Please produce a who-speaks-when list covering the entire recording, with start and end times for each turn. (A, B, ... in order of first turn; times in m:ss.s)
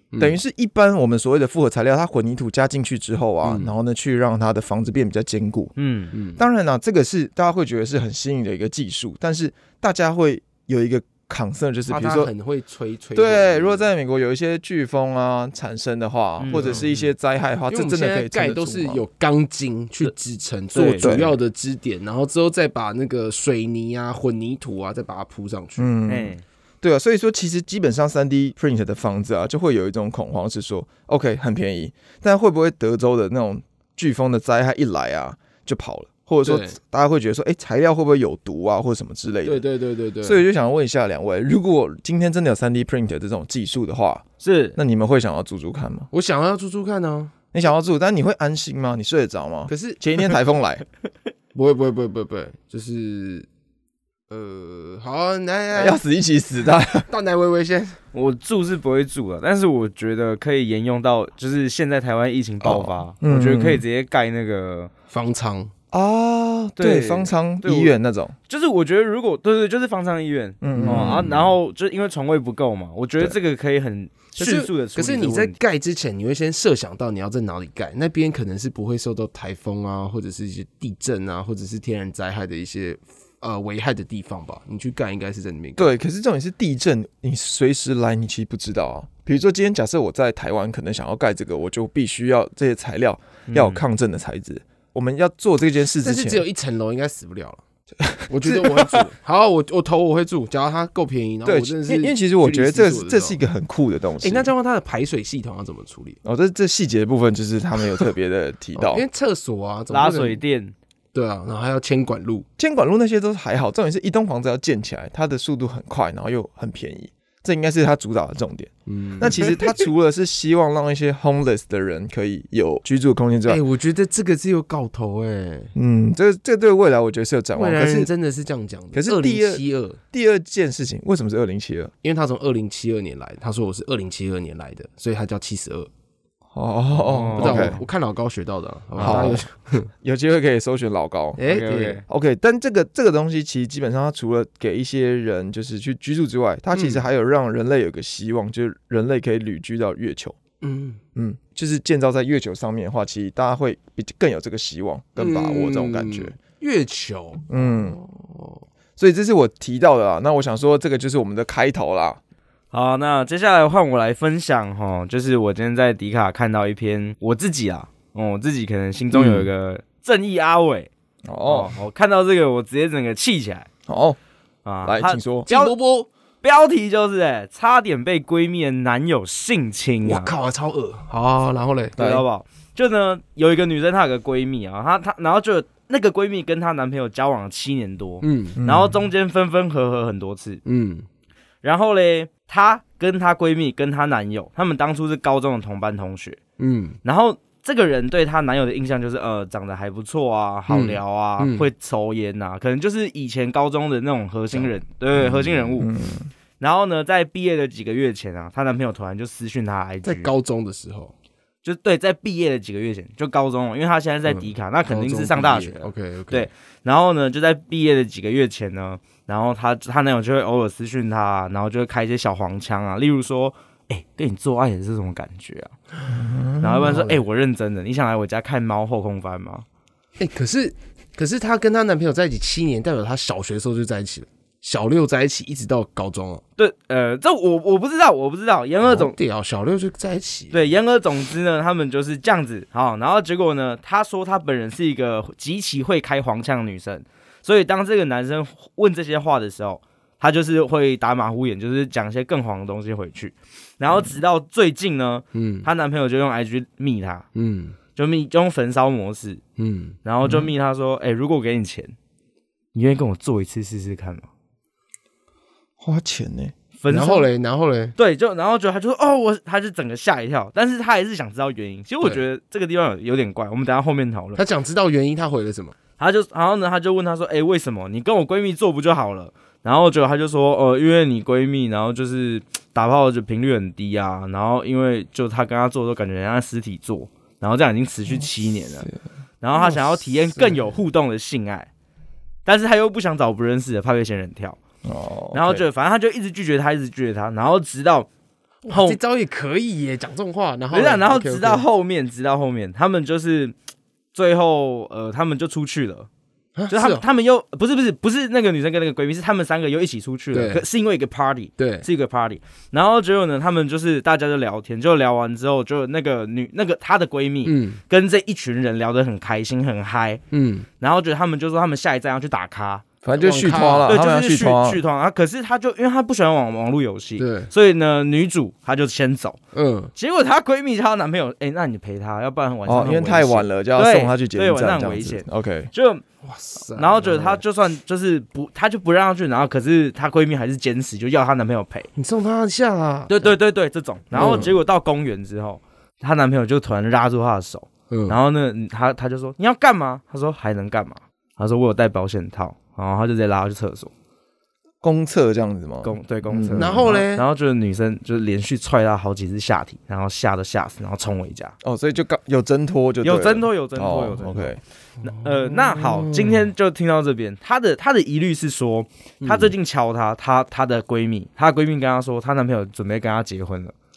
0:00.1-0:00.4 A
0:00.2-0:05.7 B
0:03.4-0:03.7 A
0:05.8-0:06.1 C
0:06.1-0:06.4 A
0:06.4-0:12.3 B
0:11.9-0:13.8 A
0:13.1-0:19.0 B
0:16.4-0:16.9 C
0:16.5-0:16.9 A
0:17.7-0:25.9 A
0:20.7-0:21.1 C
0:21.0-0:21.4 B
0:25.8-0:39.6 B
0:26.1-0:26.4 C
0:36.4-0:36.8 A
0:39.4-0:40.4 A
0:40.2-0:44.2 B
0:44.4-0:44.8 C
0:44.8-0:46.1 B
0:46.1-0:47.3 A
0:47.5-0:50.8 B
0:49.7-0:50.0 A
0:51.5-0:53.5 A
0:54.3-0:56.0 A
0:55.7-0:57.1 B
0:57.1-0:58.0 A
0:58.1-1:04.9 C
1:02.6-1:03.8 B
1:05.1-1:05.7 A
1:05.9-1:08.3 B
1:06.8-1:07.9 C
1:08.5-1:15.6 C
1:10.6-1:11.5 B
1:10.7-1:11.3 A
1:14.4-1:25.9 A
1:25.8-1:36.4 B
1:33.5-1:33.8 C
1:36.0-1:37.6 A
1:38.0-1:38.9 B
1:38.3-1:43.4 A
1:41.4-1:44.5 B
1:44.2-1:46.2 A
1:46.2-1:49.0 B
1:48.8-1:50.4 A
1:49.9-1:50.7 C
1:51.1-1:52.4 A
1:52.6-2:03.6 B
1:58.9-1:59.6 A
2:03.5-2:05.7 A
2:05.7-2:08.1 B
2:07.5-2:10.0 A
2:08.9-2:11.9 B
2:12.0-2:15.9 A
2:16.5-2:17.8 B
2:17.0-2:17.8 C
2:17.4-2:19.9 A
2:19.0-2:19.4 C
2:19.0-2:19.4 B
2:20.0-2:21.4 B
2:21.4-2:22.0 A
2:21.4-2:22.0 C
2:22.0-2:30.4 B
2:26.7-2:27.0 A
2:30.6-2:31.0 A
2:31.1-2:36.3 B
2:35.2-2:38.6 A
2:37.5-2:38.0 B
2:39.0-2:42.2 B
2:42.7-2:50.9 C
2:49.1-2:49.4 B
2:51.2-2:51.7 B
2:51.4-2:53.7 C
2:53.9-2:54.2 B
2:54.6-2:55.7 C
2:54.8-2:55.5 B
2:55.5-2:56.1 A
2:56.4-3:00.3 C
3:00.0-3:02.0 A
3:02.0-3:02.2 B
3:02.0-3:10.6 C
3:08.2-3:08.6 A
3:08.6-3:09.0 B
3:10.6-3:11.0 A
3:11.6-3:16.4 C
3:16.6-3:17.0 A
3:17.0-3:25.9 C
3:20.7-3:21.6 A
3:25.2-3:26.3 B
3:26.6-3:30.3 C
3:30.0-3:31.1 A
3:31.6-3:45.8 C
3:34.3-3:36.5 A
3:46.1-3:47.0 B
3:46.6-3:49.6 C
3:46.8-3:47.2 A
3:50.2-3:56.4 A
3:56.6-3:59.2 C
3:58.8-4:00.7 A
4:00.5-4:17.3 C
4:15.3-4:15.7 A
4:17.3-4:17.8 A
4:18.0-4:19.4 C
4:19.6-4:20.0 A
4:20.0-4:21.9 C
4:20.2-4:20.5 B
4:22.7-4:24.3 C
4:25.8-4:26.5 B
4:26.8-4:27.3 C
4:26.9-4:27.9 A
4:28.0-4:34.4 C
4:34.4-4:35.7 A
4:36.0-4:48.9 C
4:49.4-4:51.7 C
4:49.6-4:50.8 A
4:52.4-4:54.6 C
4:54.8-4:55.6 B
4:55.3-4:58.1 C
4:58.6-5:01.6 A
4:58.7-4:59.0 C
5:00.7-5:03.5 C
5:04.1-5:06.1 C
5:06.6-5:07.0 A
5:06.7-5:20.2 C
5:10.3-5:10.6 A
5:11.6-5:11.8 A
5:17.4-5:17.8 A
5:20.3-5:20.7 A
5:20.8-5:22.8 C
5:23.0-5:24.8 B
5:23.1-5:23.9 A
5:23.9-5:29.4 C
5:27.2-5:27.5 A
5:29.5-5:29.9 A
5:30.0-5:36.0 C
5:32.6-5:35.7 B
5:36.2-5:37.4 A
5:36.7-5:41.9 C
5:42.0-5:43.3 A
5:43.1-5:53.9 C
5:44.1-5:44.5 B
5:44.1-5:44.5 A
5:47.9-5:48.2 A
5:54.8-5:57.0 B
5:55.8-6:01.5 C
5:56.6-5:57.2 A
6:01.6-6:04.6 B
6:03.0-6:13.7 C
6:05.0-6:06.5 A
6:09.2-6:09.5 A